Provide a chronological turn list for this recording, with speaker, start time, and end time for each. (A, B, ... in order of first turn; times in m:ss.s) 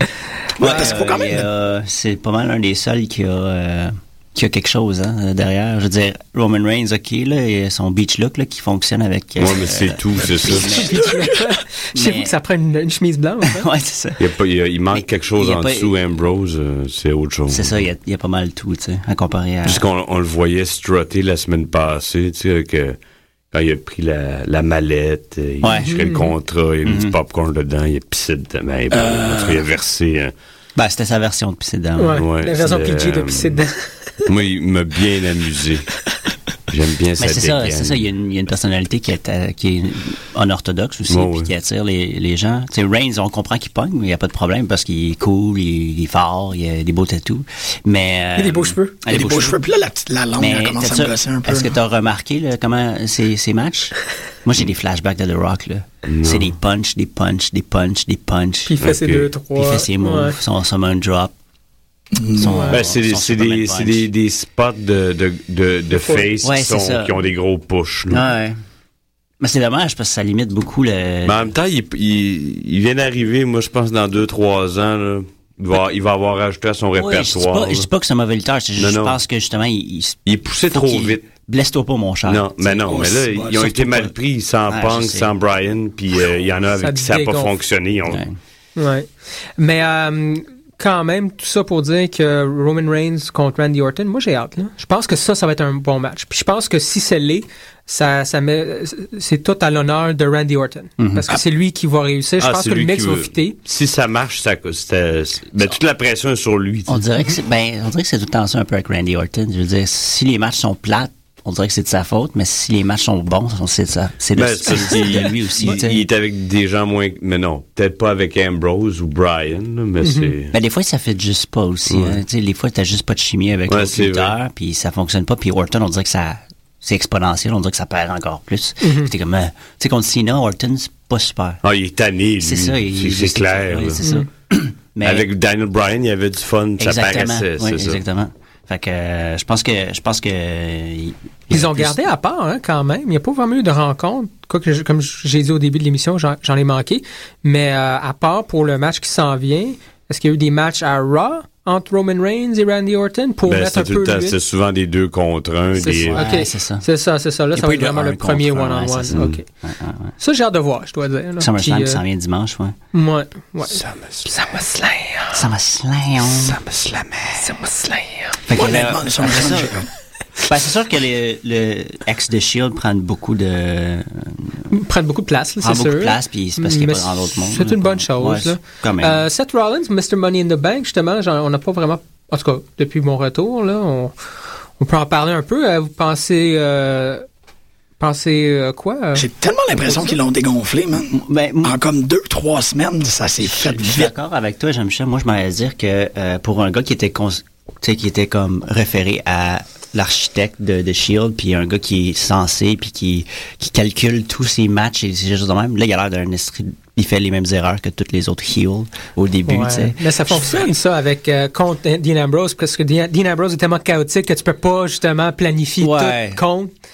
0:00.6-0:01.5 A
0:00.6-0:11.0 B
0:09.4-0:10.9 C
0:10.5-0:13.7 D
0:11.0-0:11.4 A
0:12.0-0:12.3 B
0:13.5-0:14.3 B
0:14.2-0:17.8 C
0:15.0-0:15.9 B
0:17.5-0:19.8 B
0:19.7-0:23.0 C
0:23.5-0:30.3 C
0:25.6-0:26.1 B
0:25.7-0:26.3 D
0:26.8-0:27.2 B
0:28.9-0:29.6 A
0:30.8-0:32.2 B
0:32.0-0:33.9 D
0:32.2-0:33.6 C
0:34.2-0:35.9 C
0:36.7-0:38.0 C
0:37.2-0:49.6 B
0:41.1-0:41.5 C
0:48.4-0:49.0 D
0:49.1-0:51.8 A
0:50.4-0:58.7 B
0:56.1-0:56.5 C
0:58.6-1:00.4 D
0:58.8-0:59.3 C
0:59.6-1:01.3 B
1:02.1-1:02.8 A
1:02.4-1:04.1 B
1:02.4-1:02.8 D
1:02.7-1:08.2 C
1:06.0-1:06.3 D
1:06.4-1:07.1 B
1:08.1-1:08.6 B
1:09.4-1:11.5 B
1:11.3-1:17.9 C
1:17.0-1:24.2 B
1:18.8-1:19.2 C
1:20.3-1:21.2 C
1:22.3-1:28.2 C
1:22.9-1:23.6 A
1:24.7-1:25.3 B
1:26.8-1:27.5 D
1:28.1-1:28.4 B
1:28.8-1:43.6 D
1:41.0-1:41.3 B
1:42.4-1:47.0 C
1:46.9-1:56.0 B
1:54.4-2:00.6 C
2:00.0-2:00.3 D
2:00.5-2:11.6 B
2:01.9-2:02.2 C
2:03.7-2:04.3 C
2:08.8-2:09.1 D
2:11.6-2:14.0 C
2:12.4-2:15.3 B
2:15.0-2:18.0 C
2:16.8-2:22.0 B
2:21.5-2:34.4 D
2:33.5-2:36.2 C
2:35.8-2:39.4 D
2:35.9-2:36.8 B
2:37.6-2:40.2 B
2:39.1-2:39.4 C
2:40.2-2:42.0 D
2:41.4-2:42.8 B
2:42.9-2:45.4 D
2:43.7-2:44.3 C
2:45.3-2:46.6 B
2:46.5-2:47.4 C
2:47.4-2:48.4 D
2:48.5-2:49.8 B
2:48.5-2:49.9 A
2:50.4-2:54.7 B
2:54.7-3:04.2 D
2:55.6-2:59.2 B
3:04.8-3:07.3 D
3:08.0-3:09.3 D
3:09.2-3:14.1 A
3:09.8-3:10.2 D
3:11.2-3:11.8 B
3:13.4-3:30.0 B
3:29.5-3:36.7 D
3:35.8-3:36.4 B